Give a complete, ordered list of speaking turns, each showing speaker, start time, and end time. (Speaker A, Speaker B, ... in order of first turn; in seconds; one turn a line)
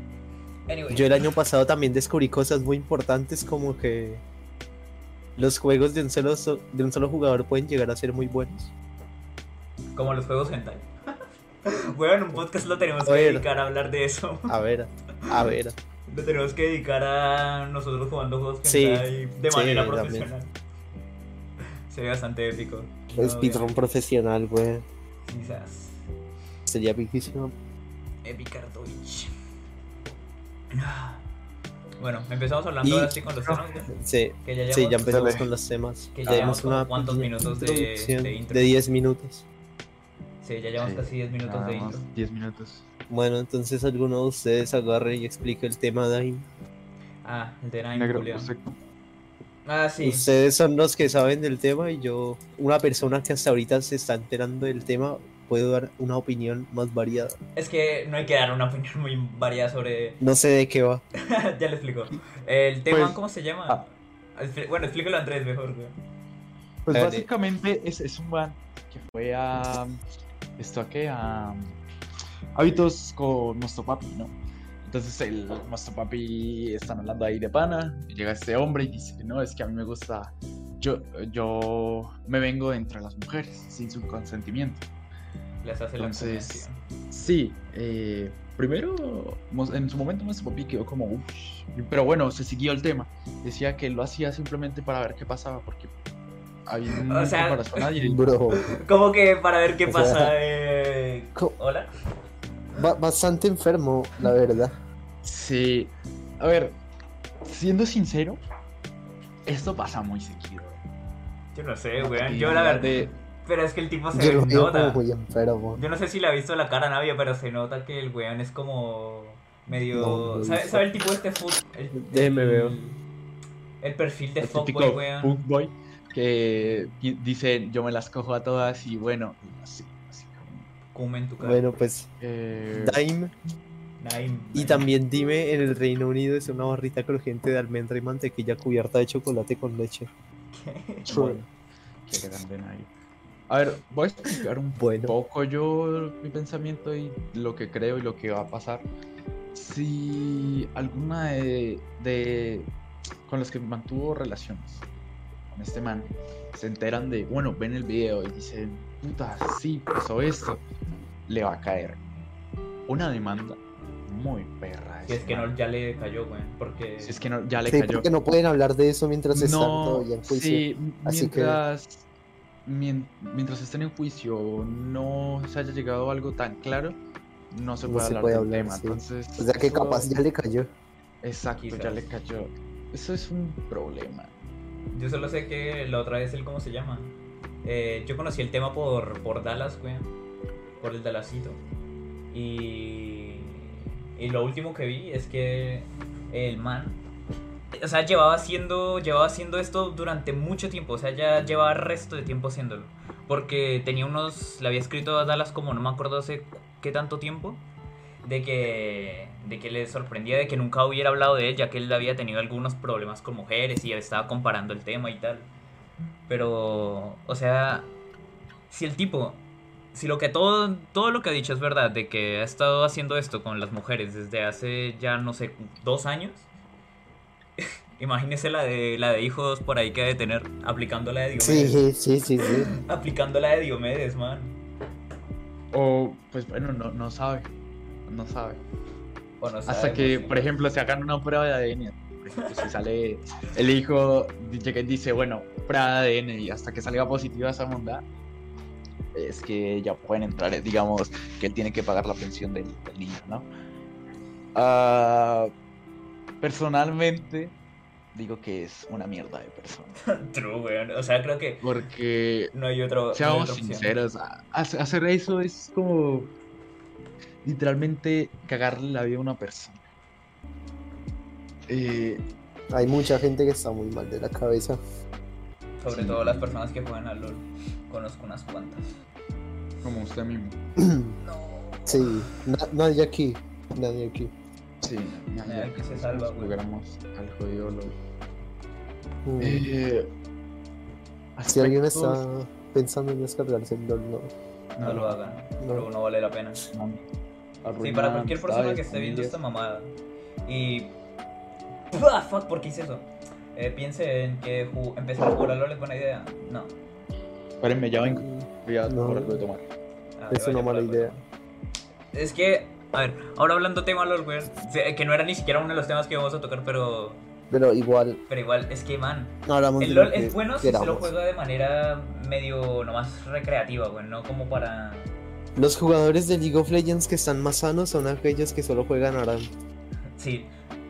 Speaker A: 0.7-1.3
Speaker B: 0.9-4.2
Speaker B: 5.4-8.7
Speaker A: 9.9-10.9
Speaker A: 11.7-14.6
Speaker B: 13.0-13.4
Speaker B: 14.5-15.8
Speaker A: 16.1-20.5
Speaker B: 18.6-20.3
Speaker A: 21.9-23.8
Speaker B: 23.1-24.8
Speaker A: 25.3-26.0
Speaker B: 26.7-27.5
Speaker A: 28.2-29.3
Speaker A: 30.7-31.2
Speaker A: 32.0-35.4
Speaker B: 32.8-33.1
Speaker B: 33.9-39.4
Speaker C: 35.0-35.5
Speaker A: 36.1-38.8
Speaker C: 36.2-36.5
Speaker A: 40.4-42.1
Speaker C: 40.8-42.9
Speaker B: 43.1-46.5
Speaker A: 47.2-48.5
Speaker C: 47.9-48.8
Speaker A: 49.6-50.4
Speaker B: 50.0-57.4
Speaker A: 57.5-60.2
Speaker B: 60.2-61.0
Speaker A: 61.2-65.9
Speaker B: 62.9-63.1
Speaker B: 66.8-67.3
Speaker C: 66.9-70.0
Speaker C: 70.6-71.7
Speaker C: 72.5-84.8
Speaker A: 85.6-86.8
Speaker C: 86.0-95.9
Speaker C: 96.7-98.3
Speaker A: 96.9-97.8
Speaker B: 98.0-98.7
Speaker A: 98.5-101.9
Speaker B: 99.8-100.3
Speaker B: 102.7-104.8
Speaker C: 105.2-106.7
Speaker C: 107.4-108.4
Speaker C: 109.5-110.8
Speaker A: 111.5-112.9
Speaker C: 112.0-113.2
Speaker A: 113.4-115.0
Speaker B: 114.1-115.8
Speaker A: 115.8-123.0
Speaker B: 119.9-120.8
Speaker C: 122.1-122.8
Speaker A: 123.8-125.4
Speaker C: 124.4-130.7
Speaker A: 130.9-131.6
Speaker B: 131.4-132.1
Speaker C: 132.2-133.0
Speaker B: 132.7-133.3
Speaker A: 134.0-134.9
Speaker B: 134.5-140.1
Speaker A: 140.5-141.1
Speaker C: 141.1-141.4
Speaker B: 141.1-141.4
Speaker C: 142.1-142.9
Speaker C: 143.5-148.8
Speaker B: 144.8-145.1
Speaker C: 149.5-152.7
Speaker C: 153.2-154.8
Speaker C: 155.5-160.6
Speaker C: 161.3-162.0
Speaker C: 162.9-165.5
Speaker A: 165.1-167.2
Speaker C: 167.0-168.1
Speaker B: 167.7-171.6
Speaker C: 169.3-172.0
Speaker C: 172.7-177.0
Speaker C: 177.5-180.2
Speaker B: 177.8-180.7
Speaker C: 181.2-184.3
Speaker A: 181.6-182.1
Speaker A: 184.9-190.1
Speaker A: 190.8-191.6
Speaker A: 192.3-197.0
Speaker A: 197.7-207.6
Speaker A: 208.2-215.5
Speaker A: 216.3-217.9
Speaker A: 218.7-219.4
Speaker A: 219.9-226.5
Speaker A: 227.6-231.8
Speaker B: 231.4-232.7
Speaker A: 232.4-234.6
Speaker C: 235.7-237.5
Speaker C: 238.1-238.6
Speaker A: 239.4-240.4
Speaker C: 239.7-248.0
Speaker C: 249.1-253.5
Speaker C: 254.5-255.5
Speaker C: 256.4-257.5
Speaker C: 258.1-259.9
Speaker A: 260.0-261.7
Speaker C: 261.6-262.5
Speaker A: 262.5-263.9
Speaker C: 263.1-266.3
Speaker C: 267.4-269.8
Speaker C: 271.7-272.2
Speaker B: 272.7-274.8
Speaker A: 275.8-279.0
Speaker C: 275.9-276.6
Speaker C: 279.8-280.6
Speaker B: 280.8-281.1
Speaker A: 281.2-282.4
Speaker B: 281.9-284.3
Speaker C: 284.8-288.0
Speaker A: 285.4-286.6
Speaker B: 289.2-289.7
Speaker C: 289.4-290.1
Speaker C: 291.4-292.2
Speaker B: 291.5-294.3
Speaker A: 294.8-296.7
Speaker C: 294.8-295.1
Speaker B: 295.6-295.9
Speaker C: 296.7-297.0
Speaker C: 297.6-299.4
Speaker A: 297.8-299.9
Speaker A: 300.4-300.9
Speaker A: 301.9-306.7
Speaker C: 307.6-309.6
Speaker B: 308.1-309.4
Speaker A: 310.2-311.2
Speaker B: 310.3-311.1
Speaker A: 312.1-317.2
Speaker B: 317.5-318.2
Speaker A: 318.3-325.1
Speaker B: 319.4-321.1
Speaker B: 325.5-329.5
Speaker A: 330.1-330.5